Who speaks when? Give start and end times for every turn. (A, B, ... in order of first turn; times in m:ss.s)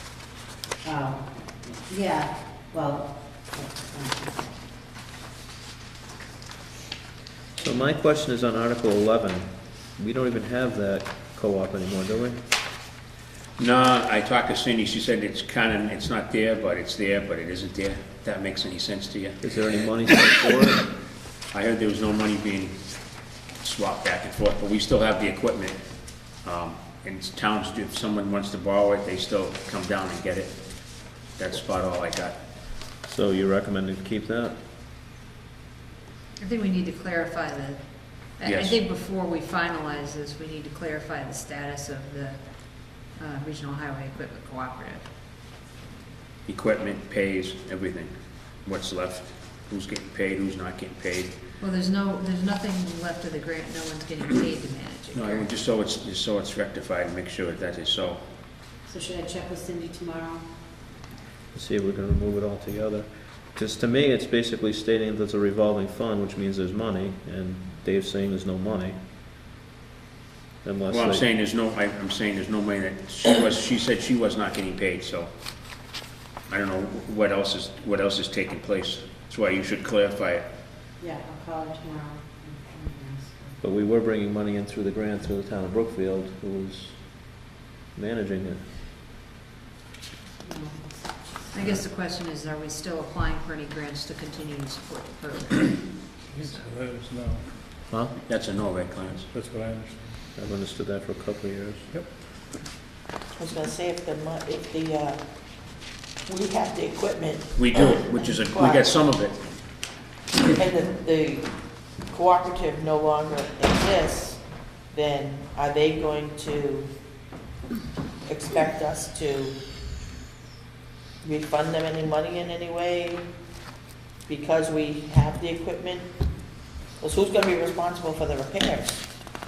0:00.8-0:04.6 A
0:07.6-0:12.5 B
0:13.6-0:19.9 C
0:19.4-0:21.0 B
0:21.5-0:32.4 C
0:33.0-0:34.6 B
0:36.4-0:45.1 D
0:38.4-0:38.8 C
0:46.5-0:51.4 C
0:51.6-0:55.5 D
0:55.1-0:58.3 C
0:58.8-1:00.5 A
1:01.5-1:09.0 B
1:10.6-1:11.3 B
1:10.9-1:15.8 C
1:16.5-1:20.5 C
1:21.0-1:23.6 A
1:23.6-1:28.7 B
1:30.4-1:31.5 A
1:31.5-1:36.5 D
1:36.3-1:37.8 E
1:37.9-1:38.2 B
1:38.2-1:39.3 C
1:39.3-1:40.2 E
1:40.4-1:41.9 B
1:43.4-1:48.9 F
1:47.6-1:49.6 C
1:50.5-1:56.9 F
1:58.2-1:59.6 F
2:01.2-2:03.3 F
2:04.3-2:06.4 F
2:07.0-2:09.4 F